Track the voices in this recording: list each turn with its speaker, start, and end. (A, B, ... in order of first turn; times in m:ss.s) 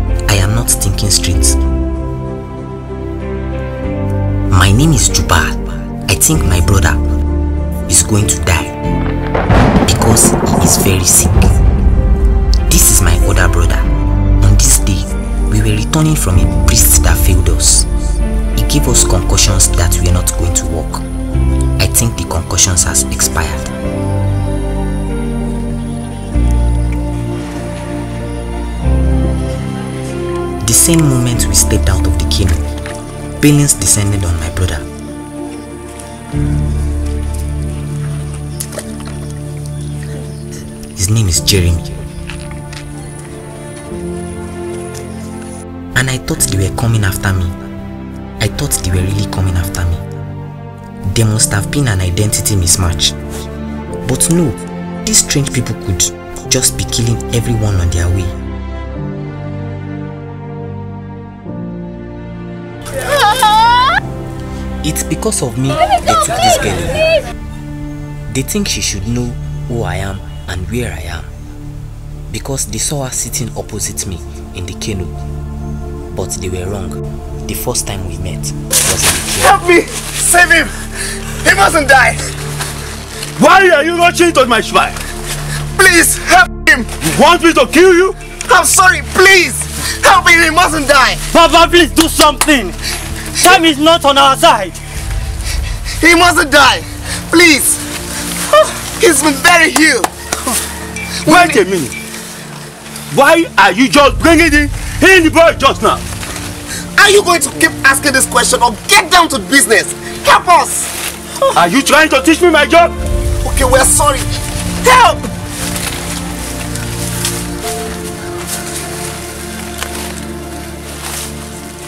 0:00.3-0:01.6 A
0:04.5-0:07.1 A
0:07.9-0:08.8 A
0:09.9-0:11.5 A
0:12.7-0:13.9 A
0:14.4-0:17.9 A
0:18.5-0:21.0 A
0:21.8-0:23.7 A
0:30.6-0:32.6 A
0:33.4-0:34.8 A
0:41.0-0:42.0 A
0:45.9-0:47.6 A
0:48.4-0:50.0 A
0:51.0-0:53.2 A
0:54.0-0:58.3 A
1:04.8-1:07.2 A
1:08.3-1:11.3 A
1:12.3-1:15.2 A
1:16.1-1:19.6 A
1:19.4-1:20.8 B
1:21.4-1:22.3 B
1:23.4-1:25.0 C
1:25.8-1:26.9 B
1:27.0-1:28.2 C
1:28.4-1:31.2 B
1:31.3-1:32.8 D
1:33.4-1:34.8 D
1:36.0-1:37.8 B
1:38.5-1:40.1 B
1:41.2-1:41.6 B
1:41.2-1:41.9 C
1:43.1-1:46.0 C
1:47.0-1:50.9 B
1:51.5-1:52.9 C
1:53.4-1:54.3 B
1:54.8-1:55.3 B